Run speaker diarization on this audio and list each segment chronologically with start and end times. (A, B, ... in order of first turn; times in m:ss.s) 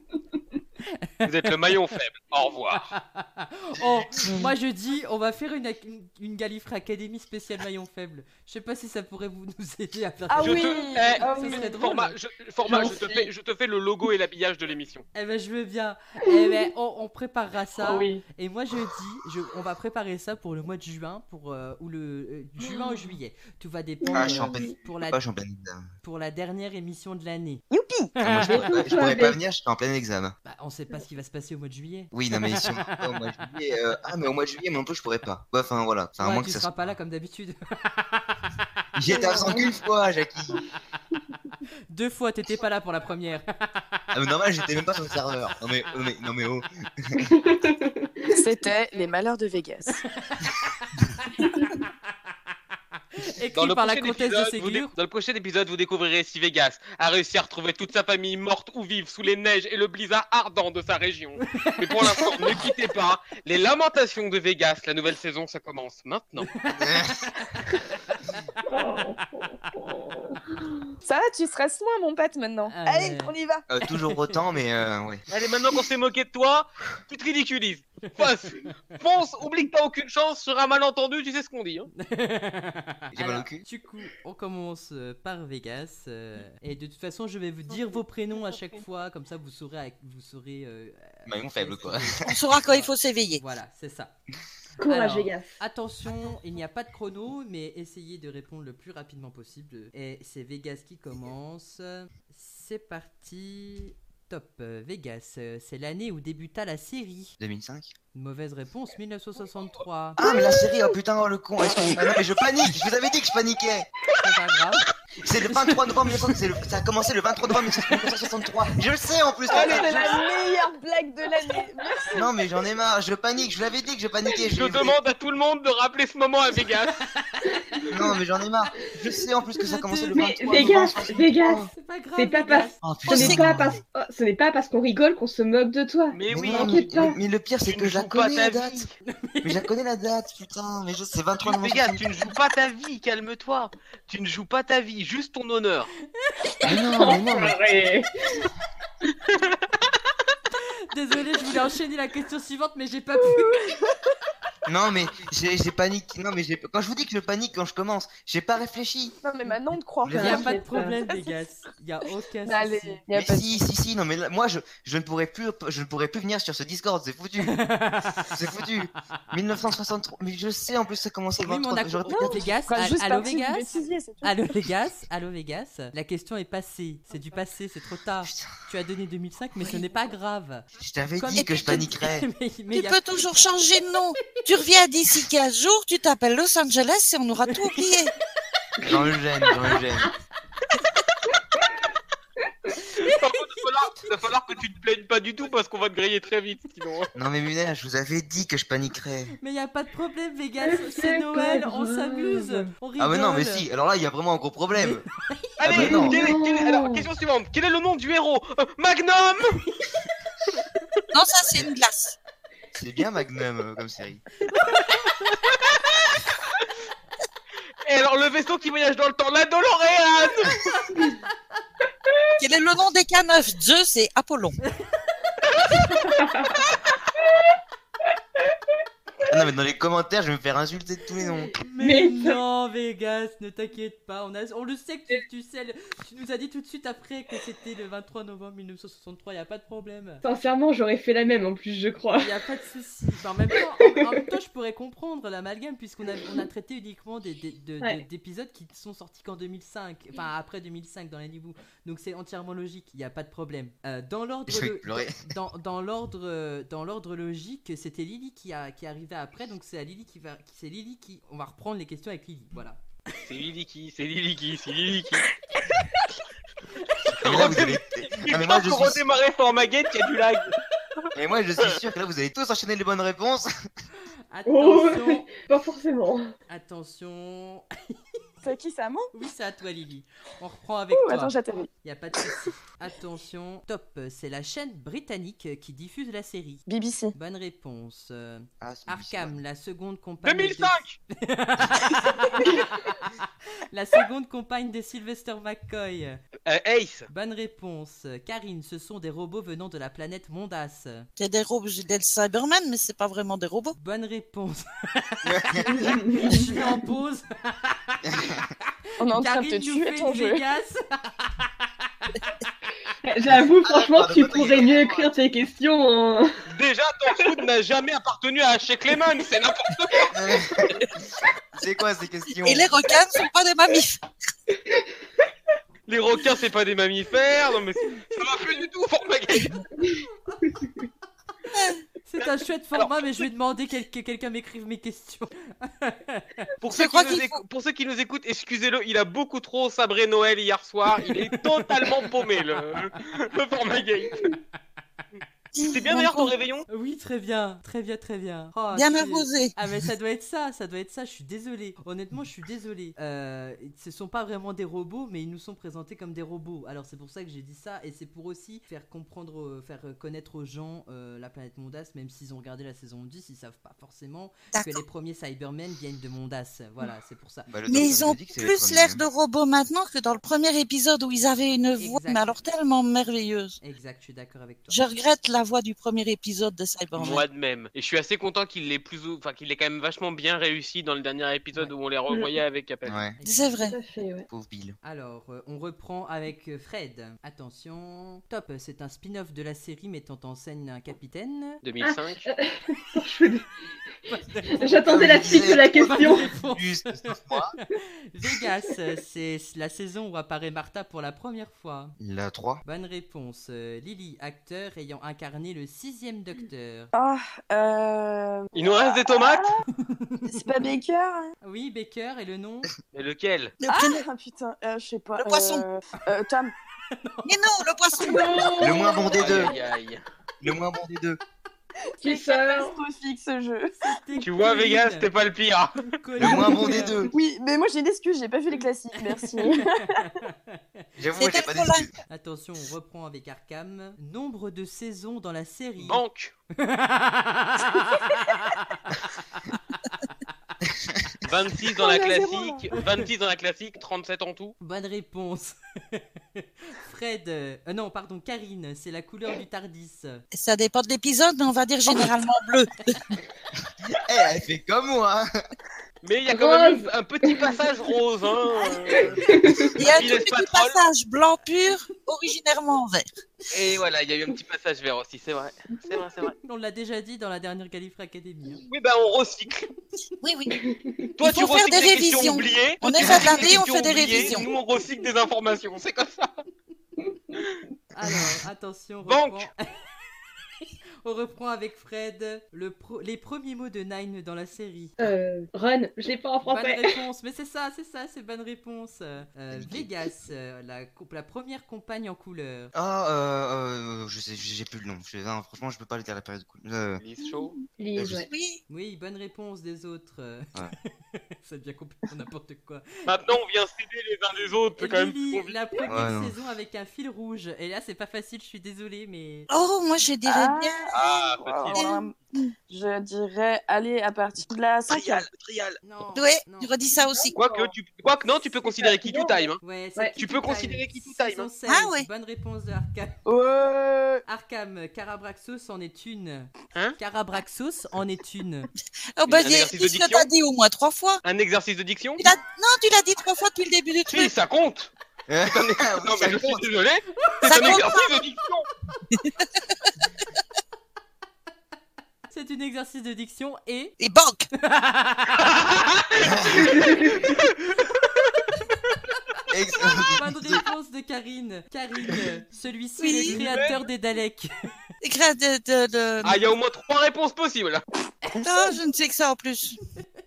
0:01.2-0:02.9 A
0:02.7-0:12.2 B
0:03.8-0:04.4 C
0:10.3-0:11.5 D
0:10.4-0:15.0 A
0:11.3-0:11.6 E
0:12.7-0:13.0 E
0:15.1-0:25.2 B
0:16.3-0:16.6 E
0:17.8-0:18.2 E
0:22.6-0:23.0 E
0:24.0-0:24.7 E
0:24.1-0:25.9 C
0:26.0-0:27.6 B
0:27.7-0:28.1 D
0:28.2-0:28.9 B
0:28.2-0:30.4 C
0:28.4-0:29.4 E
0:30.4-0:33.3 B
0:32.1-0:37.0 C
0:36.2-0:38.4 B
0:39.0-0:40.6 C
0:39.1-0:39.7 E
0:41.9-0:44.0 B
0:44.1-0:47.3 C
0:47.2-0:48.3 E
0:48.3-0:50.0 D
0:50.2-0:51.9 B
0:51.4-0:51.8 E
0:53.2-0:54.9 B
0:53.6-1:06.5 A
1:01.4-1:02.6 B
1:06.4-1:08.8 B
1:06.8-1:07.1 C
1:08.7-1:10.4 E
1:11.0-1:13.6 D
1:12.7-1:13.3 B
1:13.7-1:15.2 C
1:13.9-1:14.4 B
1:15.3-1:21.9 A
1:22.0-1:34.1 B
1:23.1-1:23.6 C
1:31.3-1:32.4 C
1:32.2-1:33.4 F
1:34.8-1:47.4 B
1:34.8-1:35.5 E
1:47.4-1:47.9 C
1:48.1-1:50.2 B
1:50.2-1:53.9 C
1:50.2-1:50.8 D
1:54.2-1:54.9 B
1:55.2-2:00.1 C
1:59.5-2:02.2 D
1:59.5-2:00.2 A
2:02.1-2:05.0 C
2:04.5-2:07.0 A
2:07.2-2:07.6 B
2:07.9-2:11.7 C
2:09.5-2:10.3 B
2:10.1-2:17.2 E
2:11.6-2:13.3 B
2:12.8-2:13.8 C
2:16.1-2:16.9 A
2:16.3-2:18.9 C
2:17.7-2:18.9 A
2:19.1-2:19.7 B
2:19.4-2:22.1 C
2:21.4-2:25.9 A
2:26.6-2:28.4 E
2:26.6-2:27.6 C
2:29.3-2:29.6 A
2:30.9-2:33.9 B
2:34.7-2:39.2 C
2:39.2-2:41.3 D
2:40.0-2:40.4 C
2:40.1-2:41.0 E
2:40.2-2:43.0 B
2:42.5-2:43.6 D
2:43.1-2:47.6 C
2:47.4-2:48.4 B
2:48.2-2:52.5 C
2:51.4-2:53.7 B
2:52.1-2:54.4 D
2:54.2-3:03.1 B
2:58.2-2:58.5 C
3:00.8-3:02.3 C
3:01.4-3:01.8 F
3:02.7-3:08.1 F
3:07.5-3:07.8 B
3:08.8-3:10.1 C
3:12.9-3:13.2 B
3:13.0-3:17.1 A
3:17.2-3:19.3 C
3:19.4-3:23.7 B
3:20.6-3:22.7 E
3:23.0-3:25.1 C
3:24.8-3:25.4 B
3:25.6-3:29.6 A
3:25.6-3:26.3 C
3:25.7-3:27.1 E
3:31.1-3:32.2 F
3:32.8-3:34.2 C
3:34.5-3:35.3 B
3:37.8-3:40.8 A
3:42.4-3:44.6 F
3:44.8-3:45.1 B
3:45.7-3:46.2 B
3:46.1-3:46.6 E
3:47.2-3:47.5 E
3:49.3-3:51.6 C
3:51.2-3:52.4 E
3:51.6-4:00.2 B
4:00.2-4:02.3 E
4:02.2-4:22.8 B
4:14.5-4:15.2 C
4:23.2-4:25.3 A
4:25.7-4:26.0 B
4:27.1-4:29.0 C
4:27.2-4:30.6 A
4:31.2-4:33.5 C
4:34.3-4:35.3 B
4:34.5-4:36.3 E
4:36.5-4:38.0 B
4:38.4-4:39.1 D
4:39.1-4:53.2 B
4:40.9-4:41.7 D
4:46.7-4:47.1 D
4:48.6-4:49.4 C
4:50.2-4:51.0 A
4:53.7-4:56.2 B
4:56.5-4:57.1 A
4:57.1-5:01.1 B
5:01.2-5:03.8 F
5:03.8-5:08.1 B
5:05.2-5:06.1 C
5:05.8-5:06.5 E
5:08.0-5:08.5 C
5:09.0-5:10.4 D
5:09.1-5:12.4 B
5:13.0-5:16.4 E
5:13.6-5:15.1 C
5:16.5-5:20.7 A
5:20.1-5:20.9 C
5:21.6-5:22.7 C
5:22.4-5:24.0 F
5:25.9-5:29.6 A
5:29.8-5:30.8 E
5:30.2-5:30.6 B
5:31.5-5:31.8 F
5:32.0-5:36.5 B
5:32.8-5:33.3 A
5:36.6-5:44.4 A
5:36.7-5:37.4 F
5:41.0-5:41.9 B
5:45.5-5:46.3 F
5:45.6-5:46.7 A
5:46.7-6:07.5 B
5:48.7-5:49.6 F
6:04.5-6:04.8 F
6:07.5-6:09.0 C
6:07.7-6:13.6 F
6:11.8-6:12.4 B
6:13.6-6:14.8 B
6:14.7-6:17.2 F
6:17.0-6:23.0 A
6:22.1-6:22.4 E
6:22.9-6:23.2 C
6:23.2-6:23.6 B
6:23.2-6:23.8 F
6:23.7-6:24.3 E
6:24.3-6:24.8 C
6:24.8-6:31.6 B
6:31.6-6:32.2 A
6:31.8-6:33.5 E
6:34.1-6:34.8 B
6:34.5-6:36.3 E
6:34.8-6:37.5 C
6:35.8-6:42.0 B
6:42.0-6:42.6 C
6:42.6-6:46.9 B
6:46.9-6:49.6 D
6:48.6-6:49.5 A
6:49.8-6:50.3 B
6:50.2-6:51.3 D
6:51.4-6:52.7 B
6:52.9-6:53.5 A
6:53.6-6:54.0 F
6:53.7-6:56.5 D
6:55.2-6:55.6 F
6:56.9-6:57.3 B
6:57.2-6:58.5 F
6:58.0-6:59.2 E
6:58.6-6:59.5 C
6:59.1-7:00.0 A
7:00.4-7:01.2 C
7:02.0-7:02.8 E
7:02.0-7:03.8 D
7:03.8-7:05.1 B
7:04.2-7:05.8 A
7:05.8-7:07.1 B
7:06.2-7:07.1 C
7:06.4-7:10.0 D
7:09.1-7:10.6 B
7:11.0-7:11.9 C
7:11.2-7:11.9 F
7:12.1-7:16.0 B
7:15.8-7:16.3 A
7:16.6-7:19.5 B
7:21.2-7:24.6 A
7:21.8-7:22.6 D
7:24.6-7:30.2 B
7:30.3-7:33.0 F
7:34.0-7:35.3 C
7:36.0-7:40.8 A
7:36.3-7:37.5 E
7:38.9-7:39.8 E
7:39.8-7:43.1 F
7:43.5-7:46.4 A
7:46.4-7:48.6 B
7:48.7-7:49.7 A
7:50.2-7:50.5 F
7:50.6-7:51.1 E
7:51.2-7:56.3 A
7:51.2-7:54.5 F
7:57.4-7:57.6 A
7:57.9-7:59.9 B
7:59.0-7:59.5 A
8:00.6-8:05.0 B
8:05.0-8:07.0 E
8:06.5-8:12.7 B
8:09.5-8:09.9 C
8:12.7-8:17.0 C
8:17.0-8:17.6 A
8:17.6-8:18.6 F
8:17.8-8:18.3 E
8:18.7-8:22.9 B
8:23.1-8:25.6 A
8:24.8-8:29.5 B
8:25.8-8:26.3 C
8:29.5-8:30.9 F
8:30.3-8:32.2 D
8:30.9-8:31.9 A
8:31.7-8:32.5 F
8:32.7-8:35.3 D
8:34.9-8:35.8 A
8:35.8-8:36.7 B
8:36.1-8:37.4 F
8:37.1-8:37.7 E
8:37.4-8:39.6 A
8:38.6-8:39.4 E
8:39.6-8:43.2 B
8:40.2-8:41.5 A
8:41.7-8:42.1 F
8:43.3-8:44.2 D
8:44.3-8:48.7 B
8:49.2-8:51.2 F
8:49.3-8:50.3 A
8:51.2-8:52.2 A
8:52.2-8:54.3 F
8:54.1-8:54.9 A
8:55.3-8:56.6 C
8:55.5-8:58.7 A
8:57.4-8:58.2 F
8:59.1-8:59.5 F
9:02.3-9:04.0 B
9:04.0-9:04.5 F
9:04.6-9:05.5 B
9:05.4-9:06.7 A
9:06.2-9:06.7 C
9:06.5-9:07.5 E
9:07.3-9:07.5 A
9:09.5-9:10.6 C
9:10.2-9:14.5 B
9:13.0-9:13.4 F
9:13.3-9:13.8 A
9:15.0-9:16.4 F
9:16.2-9:17.8 A
9:18.2-9:18.7 B
9:18.4-9:19.8 F